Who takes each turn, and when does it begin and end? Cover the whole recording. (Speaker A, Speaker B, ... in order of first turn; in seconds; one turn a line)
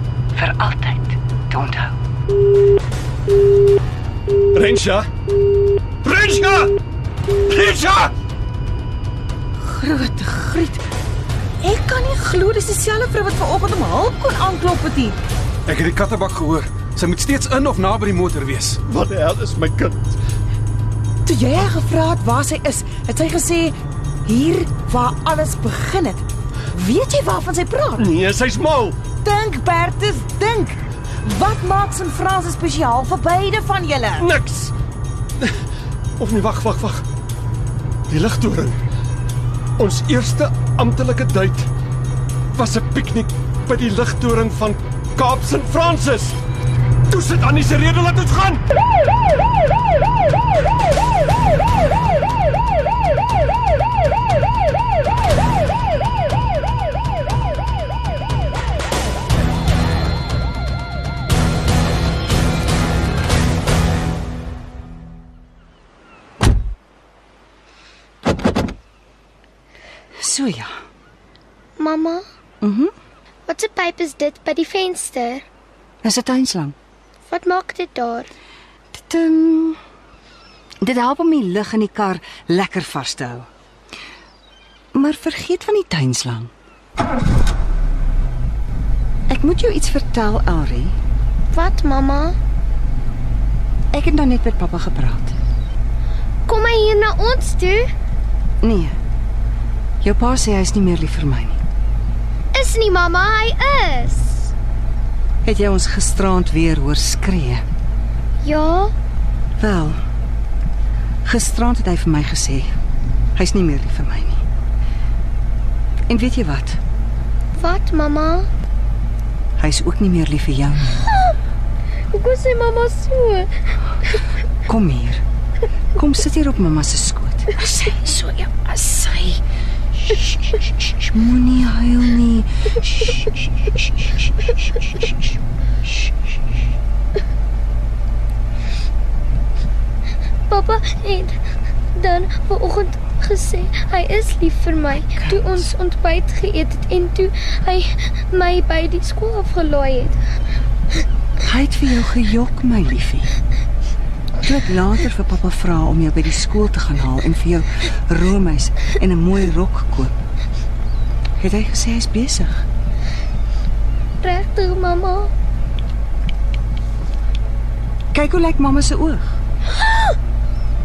Speaker A: 0.3-2.0
Speaker B: 4.5-5.1
Speaker B: 6.0-6.7
Speaker B: 7.5-8.1
Speaker C: 9.6-10.8
Speaker C: 11.6-15.2
Speaker D: 15.7-18.8
Speaker B: 18.9-20.2
Speaker C: 21.2-28.1
Speaker B: 28.0-29.0
Speaker C: 29.2-34.3
Speaker B: 34.2-34.7
Speaker B: 36.2-37.1
Speaker B: 38.1-38.8
Speaker B: 39.8-41.7
Speaker B: 42.5-46.4
Speaker B: 47.1-48.6
Speaker A: 70.2-70.8
Speaker E: 71.8-72.2
Speaker A: 72.6-72.9
Speaker E: 73.5-75.5
Speaker A: 76.0-76.8
Speaker E: 77.3-78.3
Speaker A: 78.9-79.8
Speaker A: 80.8-83.5
Speaker A: 84.9-86.5
Speaker A: 89.3-91.0
Speaker E: 91.5-92.4
Speaker A: 93.9-95.4
Speaker E: 96.5-97.9
Speaker A: 98.6-99.0
Speaker A: 100.0-101.6
Speaker E: 102.5-104.5
Speaker A: 105.5-107.6
Speaker E: 108.4-108.9
Speaker A: 109.6-110.0
Speaker A: 111.2-112.7
Speaker A: 113.4-114.4
Speaker A: 116.1-116.8
Speaker E: 117.6-118.5
Speaker A: 119.6-121.1
Speaker E: 122.1-123.5
Speaker A: 124.7-125.2
Speaker A: 126.0-127.6
Speaker C: 127.8-129.4
Speaker A: 131.1-133.2
Speaker E: 140.5-141.4
Speaker E: 141.9-150.2
Speaker A: 145.2-145.7
Speaker A: 151.4-153.3
Speaker A: 154.4-160.1
Speaker A: 161.4-162.6
Speaker E: 164.2-165.3
Speaker A: 168.1-169.4
Speaker E: 169.8-170.2